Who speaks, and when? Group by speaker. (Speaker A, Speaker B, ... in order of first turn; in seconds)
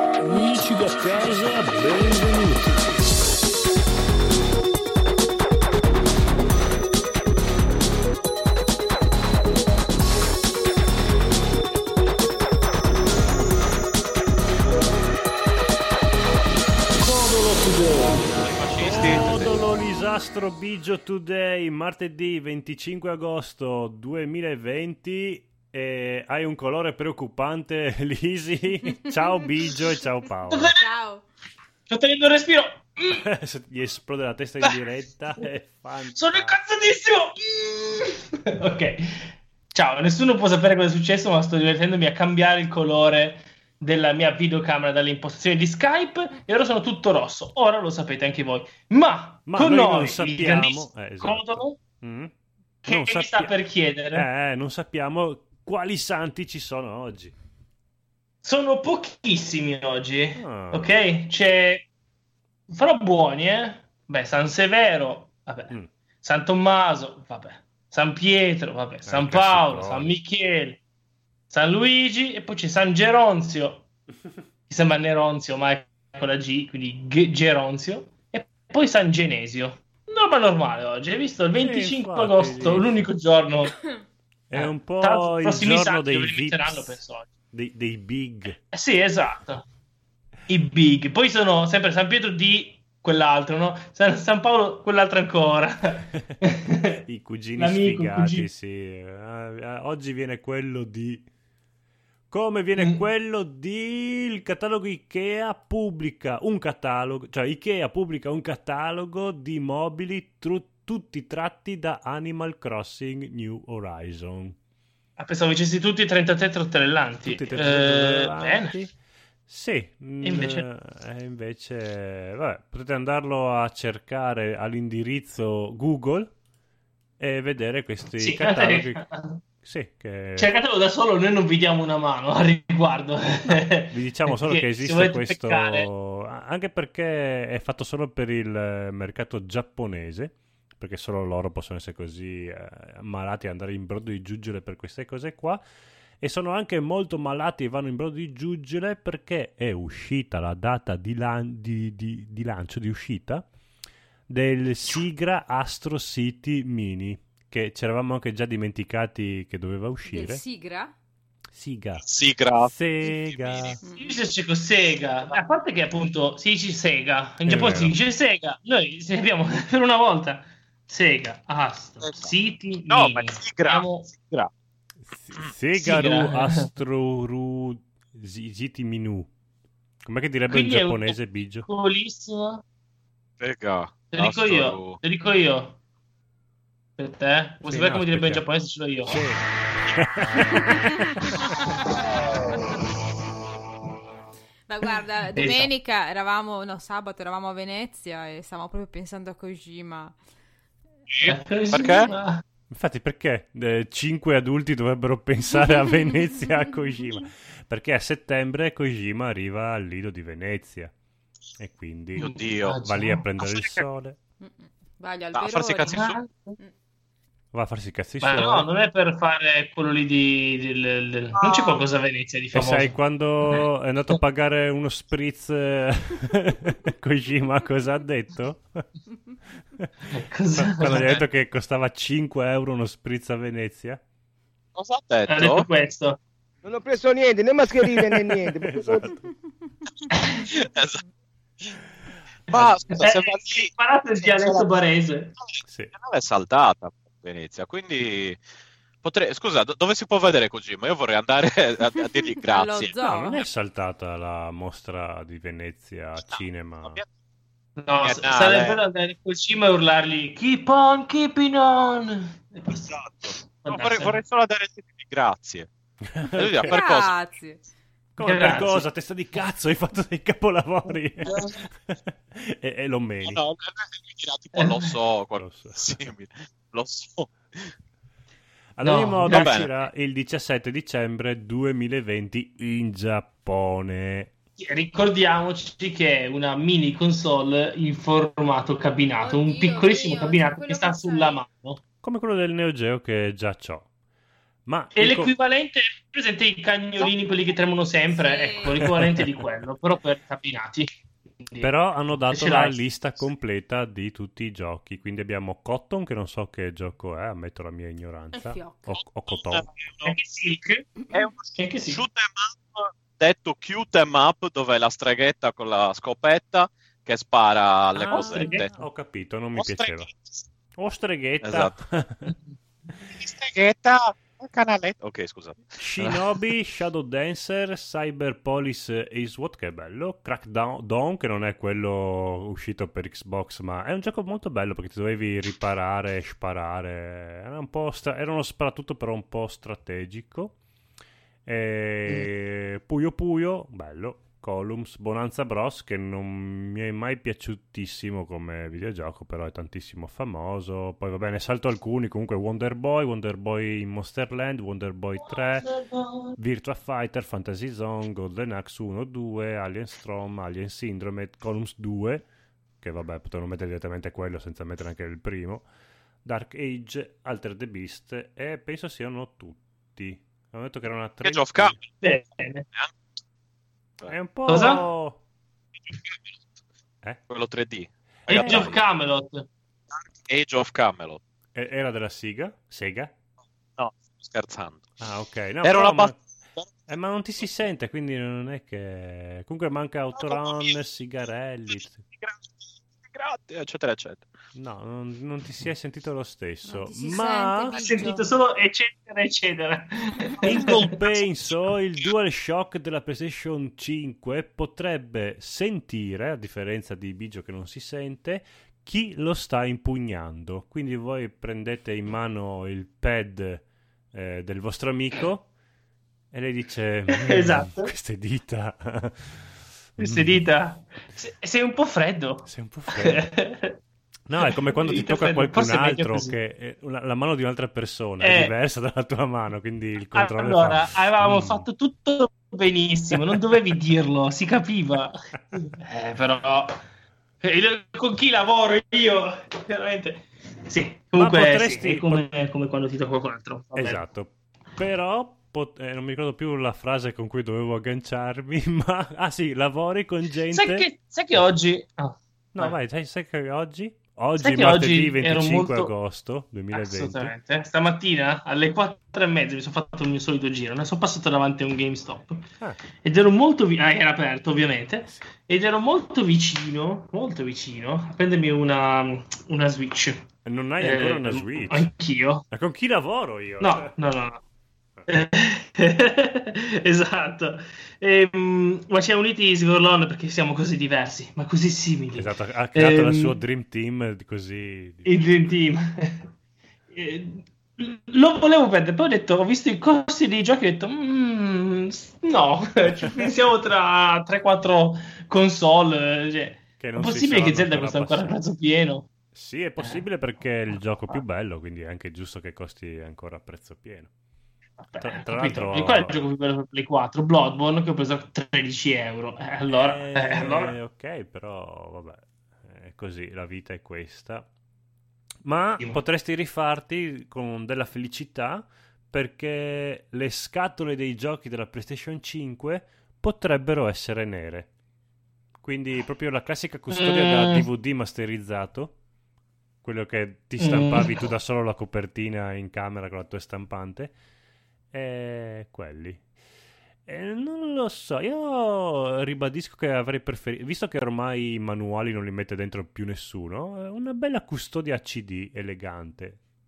Speaker A: 0.2-3.1, 17.1-18.1, 18.8-30.8, 33.1-36.6, 49.5-52.3, 52.9-53.5, 54.1-57.3, 60.3-60.9, 69.0-70.1, 81.6-83.1, 84.5-87.0, 87.5-88.6, 97.0-101.2, 102.3-114.5, 117.2-118.9, 119.5-126.3, 127.2-129.1, 129.6-130.5, 133.5-145.6, 146.2-153.4, 154.3-160.4, 161.5-163.7, 167.4-167.9, 175.0-179.3, 180.1-181.7, 187.6-188.4, 189.0-189.4, 189.9-191.3, 202.7-210.9, 211.6-214.2, 217.5-218.7, 222.5-228.8, 230.6-234.0, 238.6-239.3, 245.6-245.9, 253.1-257.0, 266.1-266.8, 268.1-271.3, 271.9-273.4, 275.4-275.8, 278.8-284.3, 292.0-293.9, 294.6-295.3, 298.7-299.4, 301.6-309.7, 317.9-320.1, 320.8-322.3, 325.8-340.6, 341.4-355.7, 356.4-362.2, 362.8-365.6, 366.2-371.8, 374.1-375.2, 378.3-378.8, 381.5-383.1, 385.0-386.2, 386.9-392.0, 394.5-398.1, 400.4-415.5, 416.3-420.4, 422.4-423.2, 424.3-431.6, 433.1-433.4, 441.2-442.2, 443.7-451.4, 452.5-457.3, 465.0-465.3, 470.4-471.9, 472.5-473.9, 482.1-485.1, 492.9-493.3, 496.8-498.3, 499.3-504.1, 505.0-506.2, 509.7-514.5, 515.4-524.7, 525.6-528.9, 529.8-534.1, 534.9-536.2, 537.0-546.4
Speaker B: 18.2-19.6, 162.0-163.8, 172.0-172.3, 172.9-174.5, 183.4-185.0, 201.1-202.1, 212.2-212.8, 213.4-213.8, 215.3-216.2, 221.4-221.8, 234.8-235.7, 240.3-241.0, 242.5-244.7, 245.4-248.4, 249.0-252.9, 256.3-257.1, 258.0-258.8, 262.7-265.7, 266.3-267.1, 273.2-277.7, 279.3-279.9, 309.3-310.1, 311.1-318.7, 319.6-320.4, 321.4-321.8, 323.1-326.2, 371.2-371.8, 375.8-376.4, 377.3-378.7, 379.9-381.2, 383.8-384.8, 385.6-386.7, 390.1-390.8, 392.1-394.2
Speaker C: 30.5-30.8, 31.9-33.2, 36.1-51.8, 52.8-54.2, 58.4-61.9, 62.7-70.8, 71.5-73.8, 74.7-83.8, 84.5-87.3, 88.7-89.7, 90.5-97.0, 97.6-98.4, 102.8-103.0, 115.2-118.7, 120.2-120.7, 128.2-129.4, 130.4-135.9, 164.0-174.1, 175.7-176.7, 180.5-182.6, 184.1-185.8, 187.0-189.2, 195.3-195.7, 201.2-202.4, 212.2-213.2, 215.9-216.6, 218.2-223.0, 230.1-231.2, 235.3-236.2, 242.9-245.3, 257.8-262.9, 263.5-264.2, 268.2-268.9, 271.2-271.5, 274.5-274.9, 278.8-279.6, 284.6-291.8, 294.9-300.9, 301.4-301.7, 302.3-302.8, 310.0-310.9, 311.6-312.0, 318.1-318.6, 355.2-356.4, 372.0-372.6, 374.5-374.8, 378.3-379.4, 397.7-400.9, 417.2-417.9, 420.0-423.8, 424.4-426.4, 428.2-428.5, 430.1-436.7, 437.4-444.0, 450.5-452.7, 454.4-455.9, 456.7-462.5, 463.0-470.2, 470.8-472.4, 473.6-474.4, 475.1-483.4, 485.1-486.3, 486.9-499.1, 504.8-510.7, 526.9-527.6, 530.6-531.3
Speaker D: 30.8-31.2, 160.1-160.9, 163.8-164.1, 194.7-200.2, 214.4-216.0, 252.4-253.4, 266.7-267.6, 289.2-291.4, 298.1-298.9, 308.3-308.9, 396.7-398.3
Speaker E: 236.6-239.1